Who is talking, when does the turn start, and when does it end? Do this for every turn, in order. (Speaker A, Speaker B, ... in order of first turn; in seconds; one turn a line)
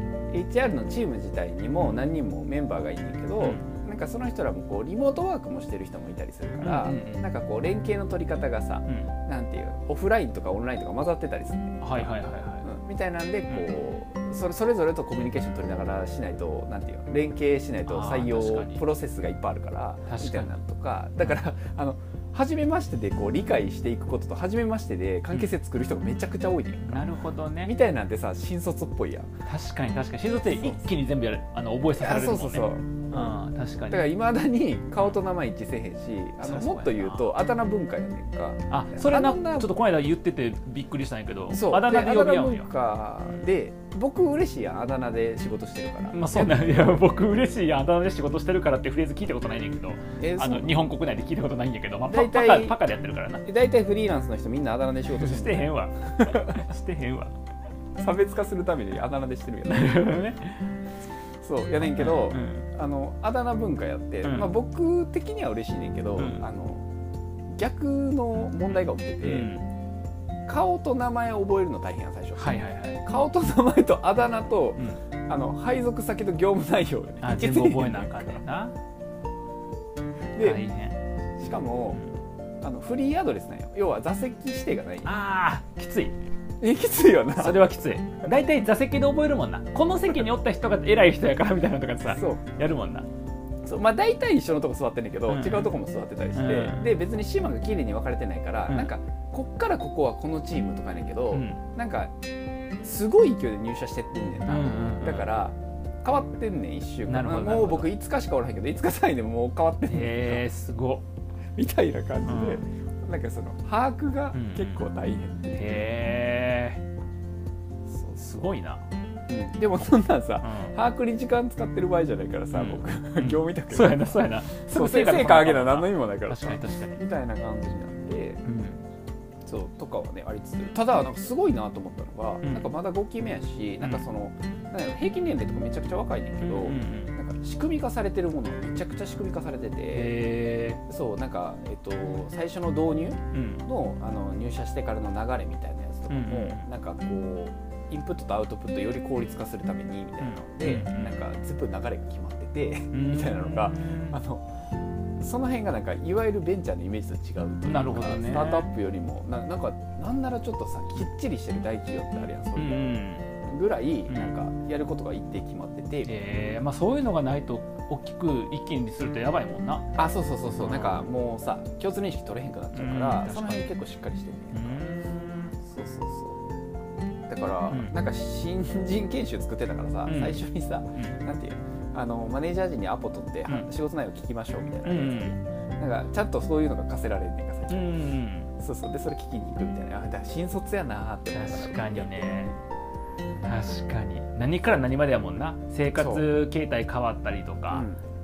Speaker A: 0.3-12.1
Speaker B: 3.4-3.7
Speaker B: 6.6-7.2
Speaker B: 11.8-12.7
Speaker A: 12.6-27.1
Speaker B: 17.9-18.8
Speaker B: 20.1-20.5
Speaker B: 26.9-27.7
Speaker A: 27.6-29.3
Speaker B: 29.5-34.1
Speaker A: 30.5-30.8
Speaker A: 32.0-39.7
Speaker B: 36.4-37.3
Speaker B: 38.7-42.7
Speaker A: 41.5-47.1
Speaker B: 46.1-53.5
Speaker A: 50.2-50.8
Speaker A: 52.1-52.8
Speaker A: 53.5-56.5
Speaker B: 55.1-57.3
Speaker A: 58.0-60.2
Speaker B: 59.7-60.7
Speaker A: 61.4-66.9
Speaker B: 61.8-62.7
Speaker B: 64.2-64.5
Speaker B: 66.2-66.5
Speaker A: 67.5-69.5
Speaker B: 69.2-69.7
Speaker A: 70.5-78.4
Speaker B: 72.4-73.0
Speaker B: 77.2-78.8
Speaker A: 80.3-80.6
Speaker B: 80.4-81.0
Speaker A: 81.4-82.0
Speaker A: 82.6-85.1
Speaker B: 85.0-86.2
Speaker A: 86.6-88.0
Speaker B: 87.4-93.1
Speaker A: 92.1-92.4
Speaker A: 93.7-102.1
Speaker B: 95.3-95.7
Speaker B: 96.3-96.9
Speaker B: 101.3-101.6
Speaker A: 102.8-110.5
Speaker B: 104.5-105.3
Speaker B: 107.1-107.9
Speaker B: 109.9-111.0
Speaker A: 111.6-115.9
Speaker B: 112.3-112.6
Speaker B: 114.3-114.8
Speaker B: 115.5-116.8
Speaker A: 117.9-118.5
Speaker B: 118.2-118.8
Speaker A: 119.3-128.4
Speaker B: 120.4-120.7
Speaker B: 122.5-127.0
Speaker B: 128.5-128.8
Speaker A: 129.5-140.1
Speaker B: 132.4-132.7
Speaker B: 136.4-137.2
Speaker B: 139.9-140.8
Speaker A: 140.9-154.4
Speaker B: 143.3-143.7
Speaker B: 146.1-146.7
Speaker B: 150.2-151.2
Speaker B: 152.9-154.2
Speaker A: 155.2-162.9
Speaker B: 157.7-158.7
Speaker B: 162.6-163.3
Speaker A: 163.5-166.2
Speaker B: 164.1-164.4
Speaker B: 166.1-169.9
Speaker A: 169.9-174.9
Speaker B: 170.6-171.1
Speaker B: 172.7-173.7
Speaker B: 174.5-175.6
Speaker A: 175.6-176.4
Speaker A: 177.3-188.0
Speaker B: 180.1-180.4
Speaker B: 184.8-185.4
Speaker B: 187.7-188.5
Speaker A: 188.6-192.5
Speaker B: 191.3-192.5
Speaker B: 193.4-197.9
Speaker A: 195.9-196.3
Speaker A: 197.7-198.0